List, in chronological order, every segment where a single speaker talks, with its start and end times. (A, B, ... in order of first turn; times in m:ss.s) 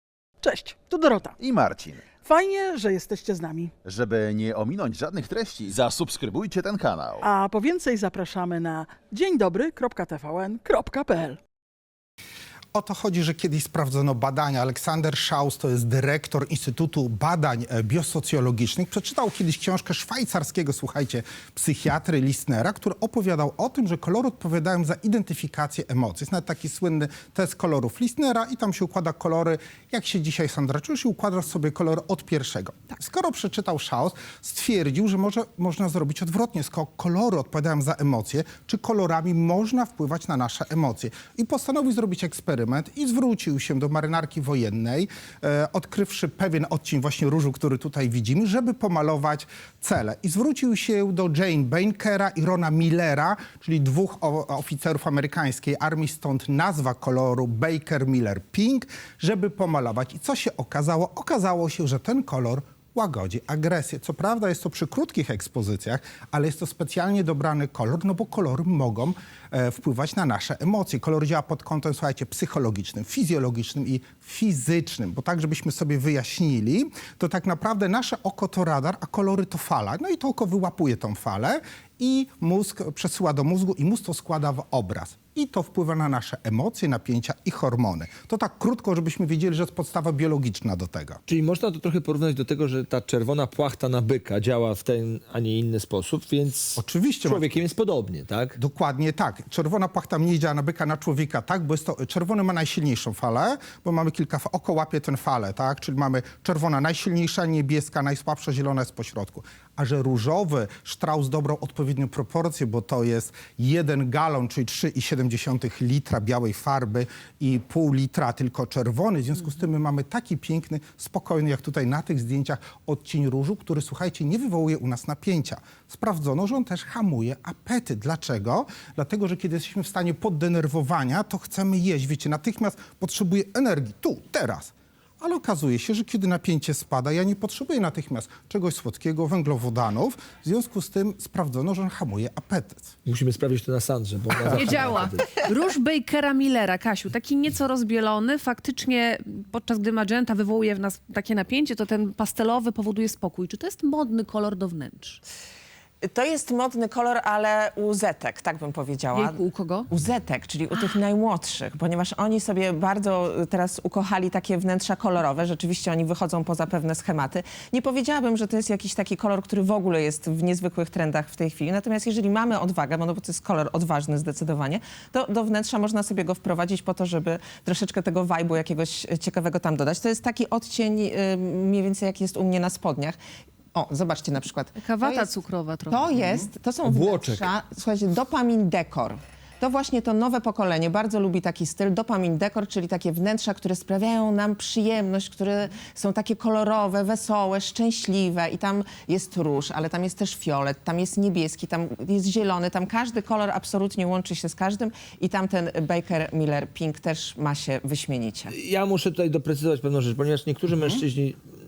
0:00.4-0:01.4 A
0:01.4-0:02.1 B
0:02.2-0:03.7 A
0:03.8-0:07.2 B
0:07.2-0:11.4 A
0:12.7-1:31.2 C
1:31.3-1:38.6 D
1:36.8-1:37.5 C
1:38.6-2:22.9 C
2:23.0-2:25.3 D
2:24.5-2:35.2 E
2:36.0-3:03.2 F
2:39.1-2:39.9 E
3:03.7-3:05.3 F
3:04.8-3:06.4 E
3:05.9-3:28.5 F
3:06.8-3:07.5 D
3:28.5-3:31.4 D
3:30.7-3:31.0 C